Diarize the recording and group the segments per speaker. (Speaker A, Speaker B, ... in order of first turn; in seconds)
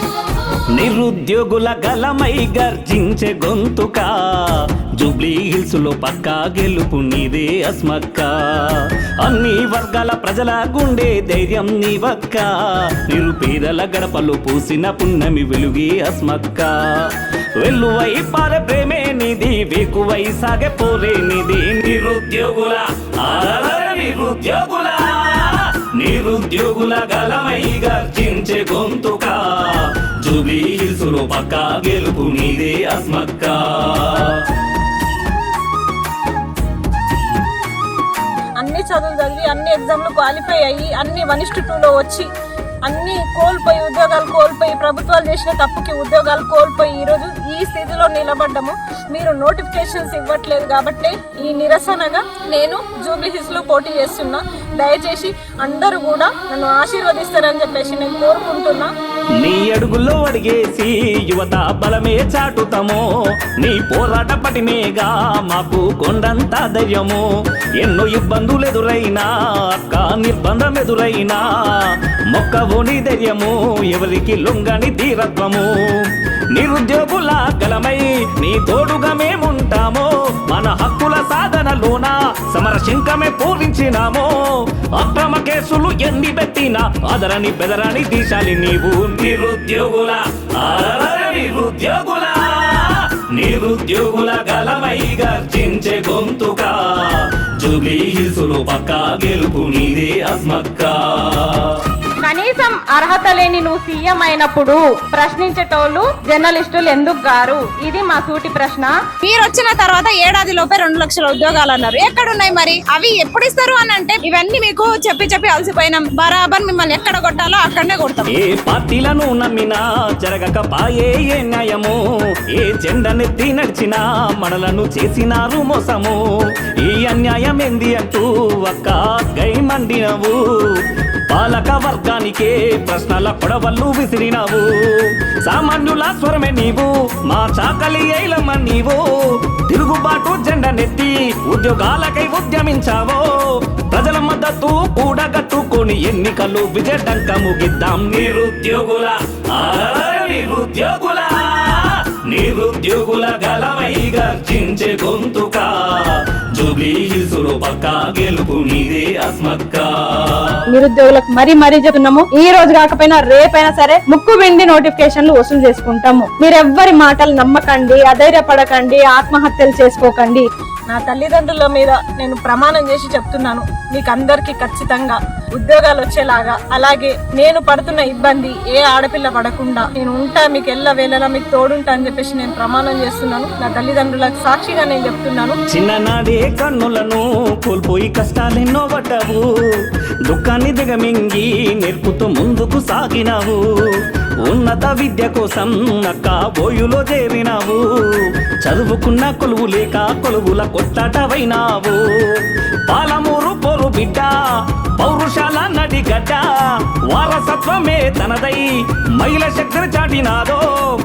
Speaker A: 0.8-4.1, 5.0-12.5, 13.0-16.7, 17.6-34.4, 59.4-63.0, 63.6-67.2, 67.8-71.5, 72.3-75.7, 76.5-84.3, 85.0-101.8, 118.3-122.0, 122.5-126.2, 126.8-130.4, 131.3-139.0, 139.7-143.3, 143.9-160.6, 185.7-189.4, 190.3-193.6, 194.4-197.8, 198.6-202.0, 202.9-204.3, 205.0-206.4, 207.1-210.7
Speaker B: 38.6-42.3, 42.9-58.9, 170.9-185.6
Speaker C: 102.2-109.0, 160.7-170.5
Speaker D: 109.2-118.3